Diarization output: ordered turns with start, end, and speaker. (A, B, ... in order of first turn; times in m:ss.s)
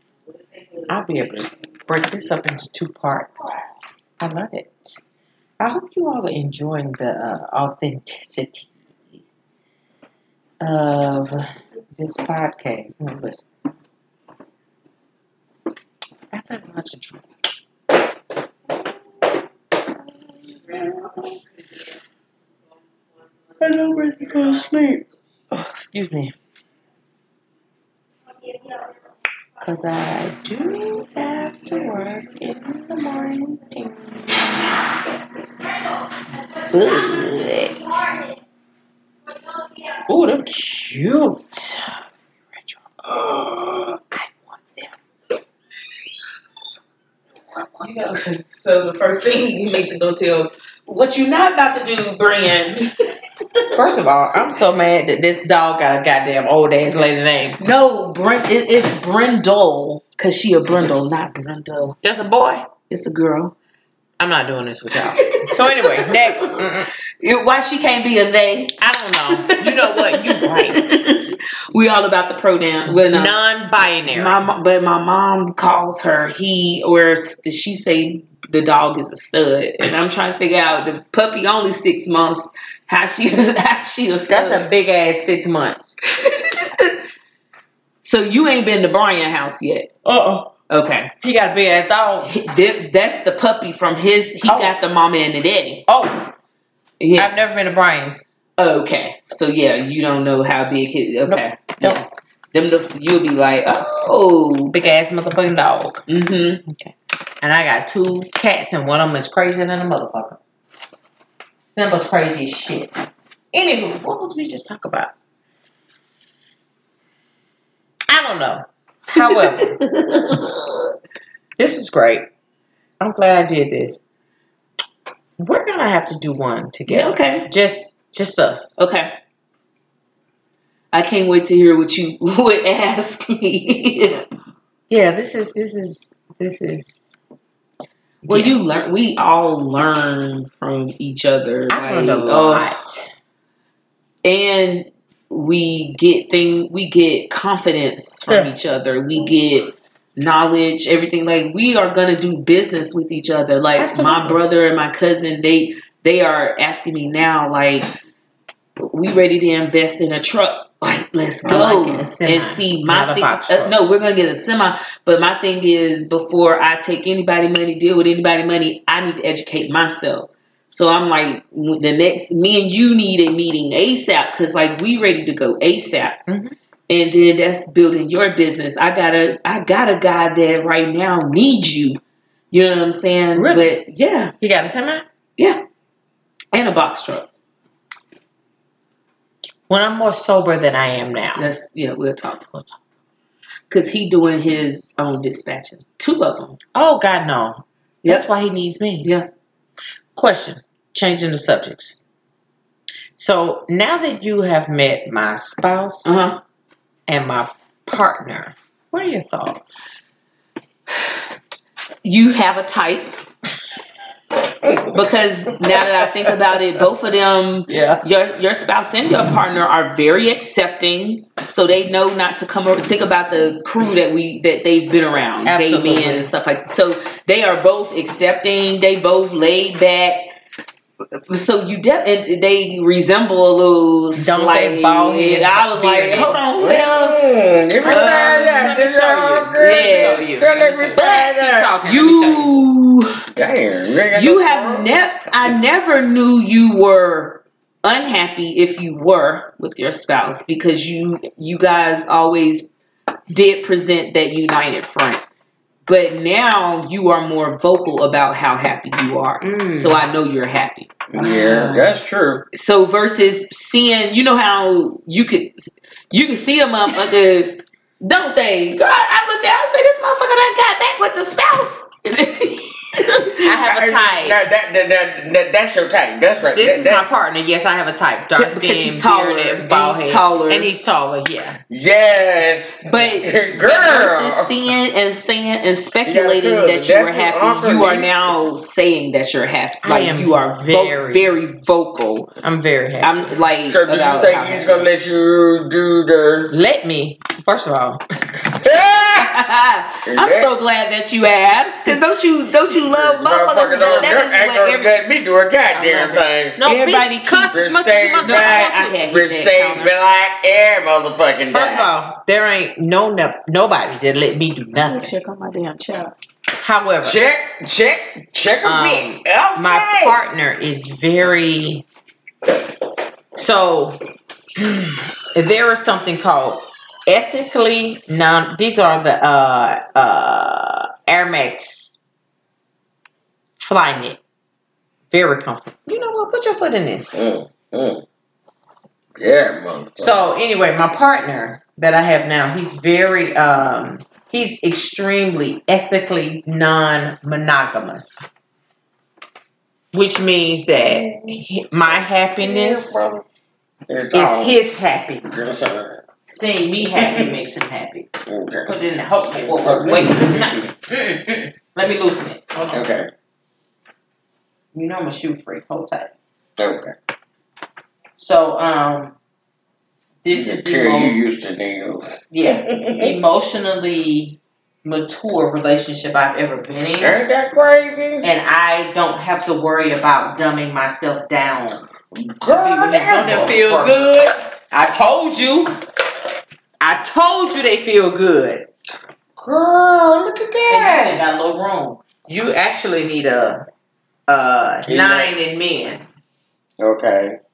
0:00.3-0:01.0 A
0:00.9-0:05.0 B
0:01.6-0:01.9 A
0:05.6-0:09.2 B
0:10.6-0:13.5 B
0:16.3-0:17.2 B
0:20.7-0:21.3 B
0:20.7-0:21.8 A
0:23.5-0:25.0 A
0:23.6-0:25.0 B
0:23.8-0:24.8 C
0:25.5-0:26.3 B
0:29.6-0:34.6 B
0:36.7-0:38.0 A
0:36.7-0:37.3 B
0:40.0-0:42.0 B
0:42.6-0:44.9 B
0:47.5-0:52.9 A
0:53.7-0:57.6 B
0:57.6-1:02.0 A
1:02.0-1:02.7 B
1:02.9-1:03.6 A
1:04.2-1:06.9 B
1:05.1-1:06.6 A
1:07.2-1:13.4 A
1:08.8-1:10.8 B
1:12.9-1:14.4 B
1:13.9-1:24.7 A
1:24.3-1:25.9 B
1:26.1-1:27.0 A
1:28.0-1:30.0 A
1:30.0-1:30.5 B
1:30.7-1:31.1 A
1:31.2-1:32.4 B
1:32.2-1:35.8 A
1:34.4-1:34.7 B
1:35.9-1:36.3 B
1:37.0-1:37.3 A
1:37.2-1:38.2 B
1:38.6-1:44.8 A
1:41.3-1:42.0 B
1:44.7-1:46.0 B
1:46.1-1:46.6 A
1:46.6-1:50.4 B
1:51.7-1:55.1 B
1:58.1-1:59.8 B
1:59.1-2:00.6 A
2:01.6-2:02.3 B
2:03.0-2:04.0 B
2:05.4-2:08.8 B
2:06.9-2:07.5 A
2:08.8-2:09.1 A
2:10.9-2:14.2 A
2:14.9-2:17.2 B
2:18.2-2:18.6 B
2:18.3-2:22.7 A
2:21.7-2:23.1 B
2:24.2-2:37.9 A
2:33.8-2:34.4 B
2:38.8-2:56.2 A
2:41.4-2:43.8 B
2:56.3-2:56.6 B
2:56.9-3:04.3 A
3:03.3-3:03.7 B
3:04.4-3:05.0 B
3:05.4-3:05.6 A
3:06.5-3:07.3 A
3:09.7-3:11.5 B
3:11.4-3:12.8 A
3:13.7-3:16.6 A
3:16.7-3:19.1 B
3:20.1-3:22.0 B
3:23.2-3:26.3 B
3:26.0-3:26.4 A
3:27.1-3:30.0 B
3:32.0-3:33.2 A
3:34.9-3:50.3 A
3:37.7-3:38.0 B
3:45.4-3:46.3 B
3:51.3-3:57.3 A
3:54.2-3:56.5 B
3:56.6-4:01.7 C
3:57.8-4:02.7 B
3:57.8-3:58.7 A
3:59.5-4:00.3 A
4:01.0-4:03.2 A
4:03.3-4:04.9 C
4:04.1-4:12.7 A
4:13.3-4:15.2 A
4:15.9-4:21.9 A
4:19.4-4:20.0 B
4:21.1-4:22.4 C
4:22.5-4:33.4 A
4:33.4-4:34.4 B
4:33.6-4:37.0 C
4:36.5-4:41.6 B
4:38.3-4:40.7 A
4:41.7-4:44.5 C
4:42.8-4:52.3 A
4:46.0-4:48.1 C
4:49.8-4:51.4 B
4:52.4-4:53.2 B
4:53.0-4:54.9 A
4:53.7-4:56.5 C
4:56.5-4:58.0 B
4:58.5-4:59.3 C
4:59.1-5:05.0 A
5:00.1-5:00.5 C
5:02.8-5:06.6 C
5:05.7-5:09.0 B
5:06.6-5:07.6 A
5:07.5-5:11.9 C
5:08.2-5:09.9 A
5:11.5-5:15.1 B
5:14.8-5:16.1 A
5:16.6-5:17.2 B
5:17.0-5:20.2 C
5:18.6-5:21.8 B
5:23.3-5:24.0 B
5:24.6-5:32.0 B
5:33.6-5:34.2 B
5:35.1-5:37.2 B
5:37.1-5:38.0 C
5:39.2-5:40.2 C
5:40.0-5:48.3 B
5:49.9-5:53.0 B
5:50.7-5:53.2 C
5:53.9-5:54.6 C
5:54.1-5:55.4 B
5:55.3-5:56.0 C
5:56.3-5:58.1 B
5:57.0-5:57.4 C
5:58.3-5:58.8 C
5:58.7-6:02.9 B
5:59.4-6:00.7 C
6:02.7-6:03.1 C
6:04.7-6:06.1 B
6:06.6-6:07.0 C
6:08.2-6:09.1 B
6:10.2-6:11.2 B
6:10.3-6:13.2 C
6:12.3-6:17.2 B
6:17.0-6:18.3 C
6:18.2-6:21.8 B
6:22.1-6:24.1 C
6:22.4-6:25.8 B
6:26.8-6:28.7 B
6:29.4-6:31.2 C
6:30.7-6:33.7 B
6:34.3-6:36.0 B
6:34.9-6:35.3 C
6:36.8-6:37.4 C